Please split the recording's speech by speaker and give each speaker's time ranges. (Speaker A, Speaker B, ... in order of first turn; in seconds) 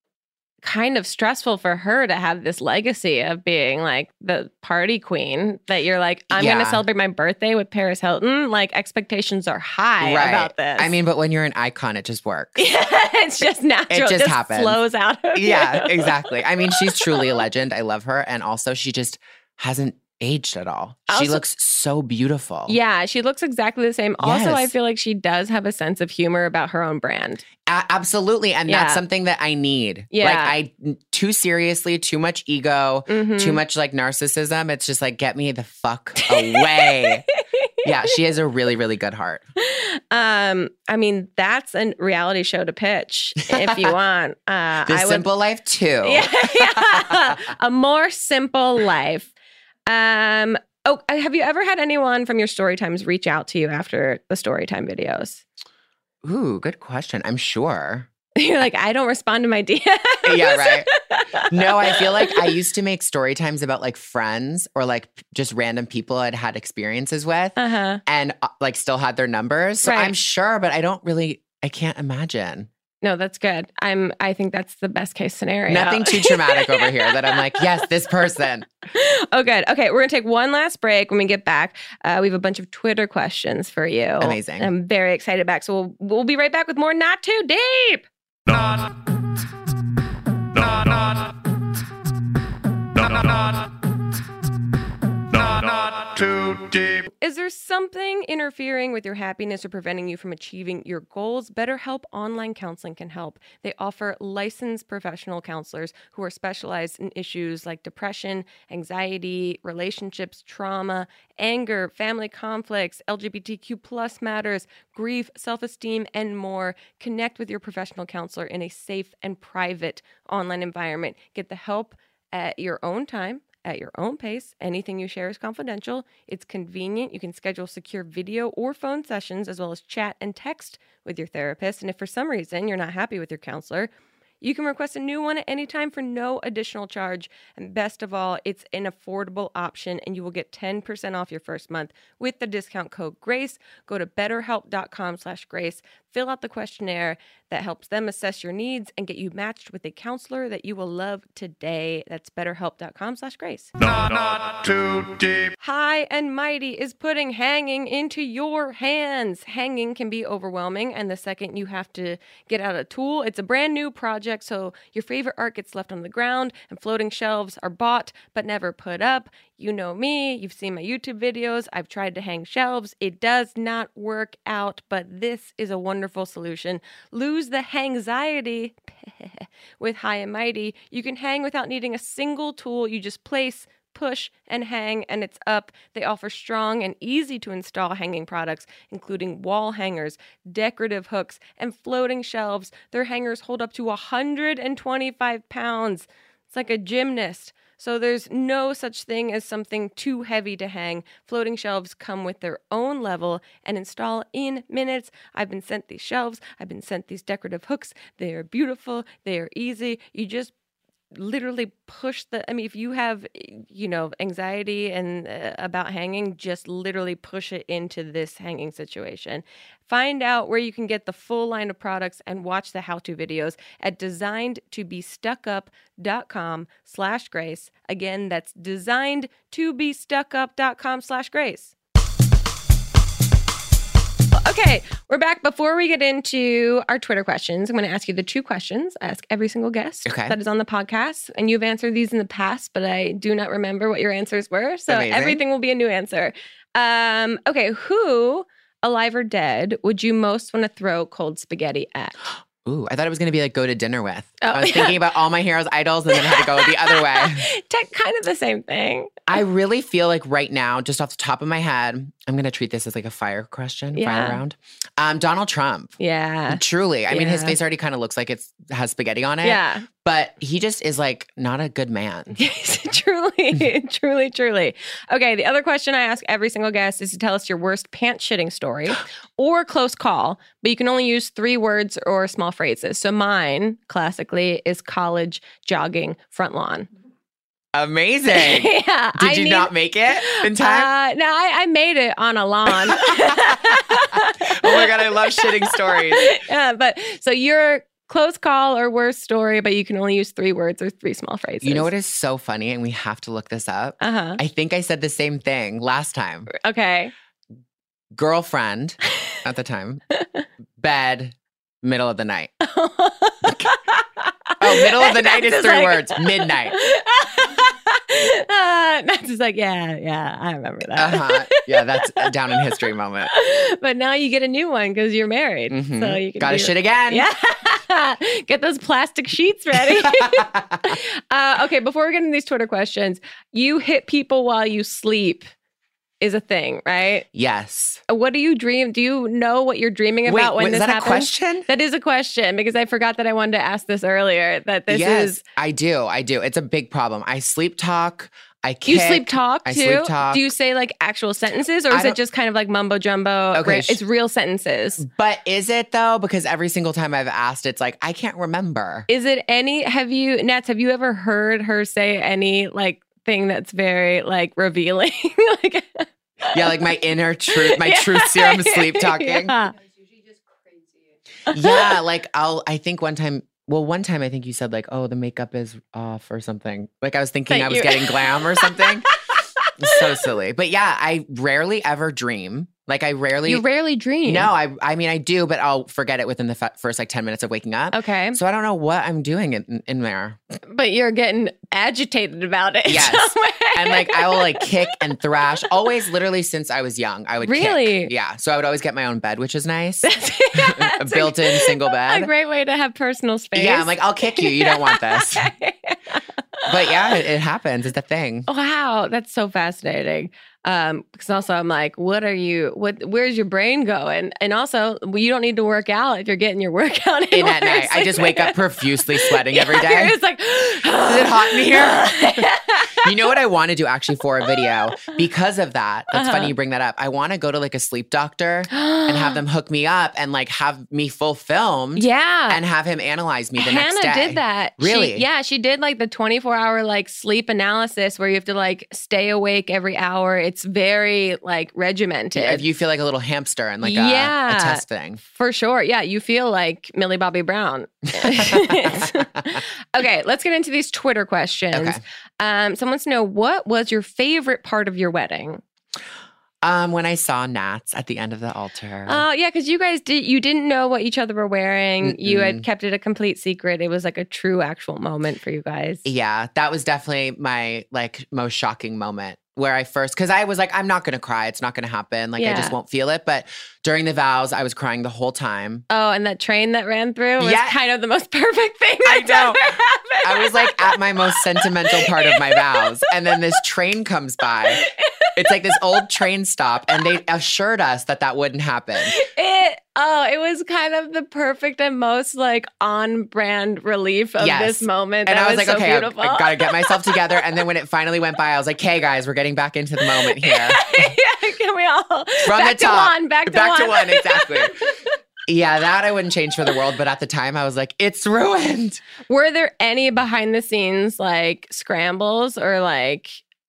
Speaker A: 0.6-10.9, 12.6-17.3, 21.1-21.4, 22.7-27.4, 28.7-29.0, 30.1-30.5, 33.1-33.6, 36.2-38.1, 39.6-45.3, 46.0-49.3, 49.9-55.4, 58.4-62.5, 67.6-68.0, 69.8-70.1, 73.0-77.6, 78.9-88.1, 97.1-133.9, 134.4-153.7, 155.6-210.5, 211.1-231.7, 234.3-252.2, 254.4-255.0, 256.1-259.3, 263.9-264.4, 266.0-267.6, 269.4-269.9, 272.4-286.9, 288.3-301.9, 304.0-304.4, 306.5-307.1, 310.1-310.4, 312.6-322.3, 323.3-335.5, 336.2-337.3, 338.1-345.4, 348.9-355.0, 359.1-369.8, 371.5-372.0, 377.5-380.1, 383.4-384.5, 387.9-388.4, 390.7-395.0, 397.4-398.1, 400.0-407.2, 408.5-423.1, 424.5-425.2, 426.1-426.5, 428.7-429.4, 431.9-432.6, 433.6-442.6, 443.8-455.6, 459.1-466.0, 472.4-472.8, 475.9-483.1, 484.7-486.0, 489.0-497.6, 500.0-504.9, 509.2-513.4
Speaker B: 6.3-6.8, 10.0-12.6, 13.9-14.8, 15.3-22.8, 24.2-24.7, 27.6-37.2, 37.8-39.5, 43.5-43.9, 44.9-47.4, 56.2-58.1, 60.3-60.9, 61.5-72.7, 75.7-78.7, 84.2-84.7, 240.1-240.4, 244.9-245.4, 252.6-257.5, 259.3-265.9, 266.5-272.4, 287.7-290.9, 292.7-296.4, 301.6-306.5, 308.1-310.0, 310.8-312.5, 314.6-316.8, 320.9-323.3, 325.7-327.3, 329.7-331.0, 337.3-338.0, 340.3-341.7, 344.9-350.5, 351.9-352.2, 353.5-354.0, 355.0-359.1, 366.5-369.6, 371.5-379.1, 379.8-383.6, 384.2-390.4, 392.9-402.3, 403.6-405.5, 406.7-408.5, 417.3-420.2, 421.1-435.2, 442.3-445.2, 448.2-449.6, 451.7-452.0, 456.6-459.2, 462.0-462.6, 466.1-475.9, 477.4-477.8, 479.1-479.6, 480.2-484.9, 485.4-489.2, 494.4-501.1, 502.4-504.8, 505.5-509.0
Speaker C: 88.5-88.9, 90.5-91.3, 93.0-93.7, 95.3-97.1, 153.8-155.6